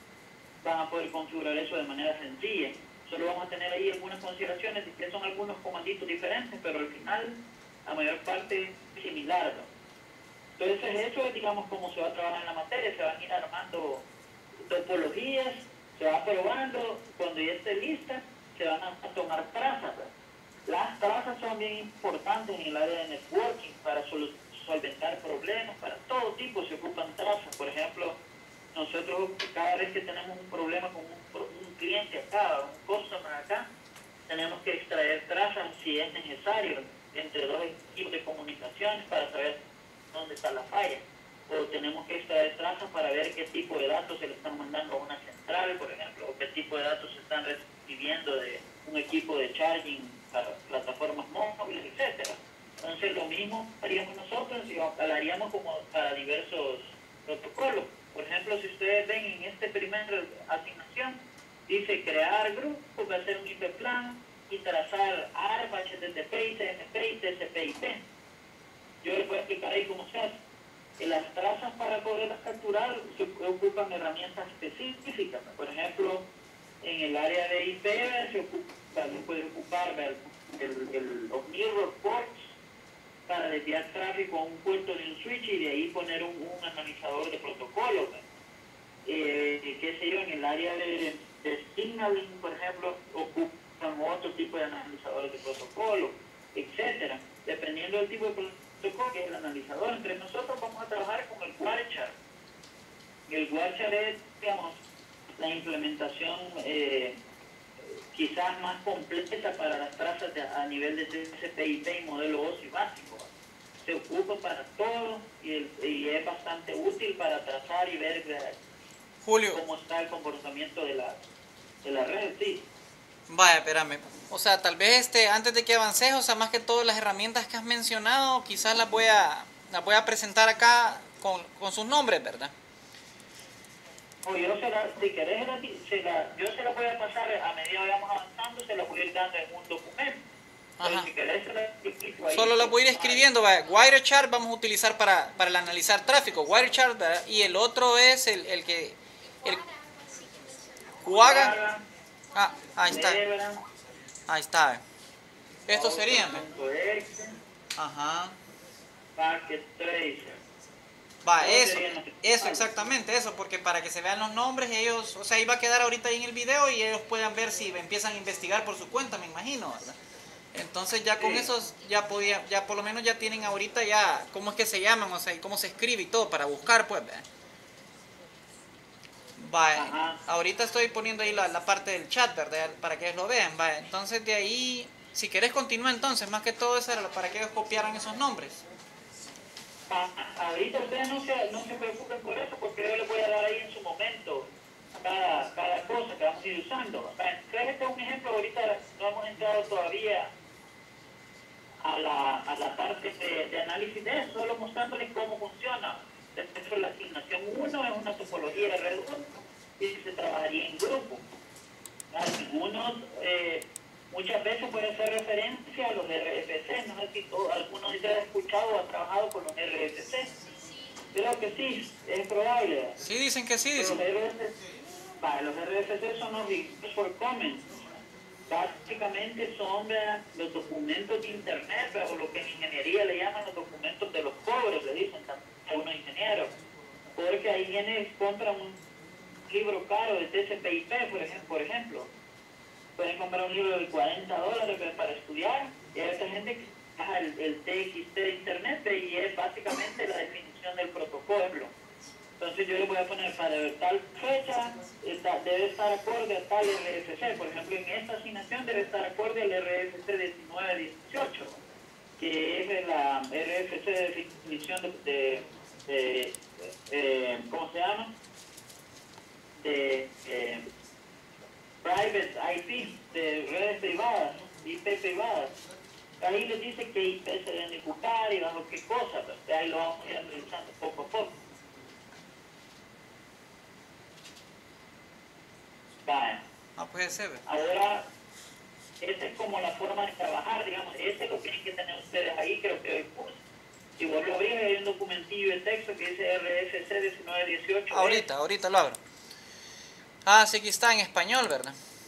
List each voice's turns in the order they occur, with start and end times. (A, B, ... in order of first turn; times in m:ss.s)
0:00.6-0:09.7 A
0:10.6-0:14.0 A
0:14.6-0:20.1 A
0:20.7-0:28.2 A
0:28.7-0:33.7 A
0:34.3-0:39.6 A
0:40.1-1:08.0 A
1:09.0-1:10.4 A
1:11.0-1:16.2 A
1:16.8-1:22.5 A
1:23.3-1:28.2 A
1:29.0-1:42.1 A
1:43.3-1:44.8 A
1:45.4-1:47.2 A
1:48.1-1:53.3 A
1:53.8-1:58.6 A
1:59.2-1:59.6 B
1:59.5-2:01.2 A
2:01.8-2:02.6 A
2:03.3-2:12.5 B
2:14.2-2:20.2 A
2:20.8-2:21.1 B
2:20.8-2:23.2 A
2:22.3-2:29.6 B
2:31.0-2:31.5 B
2:31.1-2:31.8 A
2:32.3-2:33.2 B
2:32.9-2:33.6 A
2:34.3-2:34.8 B
2:35.7-2:36.4 B
2:35.7-2:37.3 A
2:37.8-2:38.4 B
2:39.2-2:40.4 A
2:41.2-2:50.0 B
2:41.4-2:42.6 A
2:50.5-2:57.2 B
2:51.2-2:51.5 A
2:59.4-3:08.6 B
2:59.7-3:00.2 A
3:09.9-3:20.3 A
3:21.8-3:31.2 A
3:32.1-3:40.3 A
3:41.1-3:43.0 A
3:43.0-3:44.0 B
3:43.7-3:44.5 A
3:45.2-3:47.6 A
3:48.5-3:56.5 A
3:57.2-3:58.8 A
3:59.5-4:02.1 A
4:03.0-4:11.7 A
4:12.4-4:21.6 A
4:22.2-4:28.1 A
4:29.6-4:30.6 A
4:31.8-4:35.5 A
4:36.2-4:41.3 A
4:46.0-4:46.4 A
4:46.8-4:47.4 B
4:47.4-4:48.1 A
4:49.0-4:53.4 A
4:54.0-4:58.2 A
4:57.9-4:59.0 B
5:00.2-5:01.8 B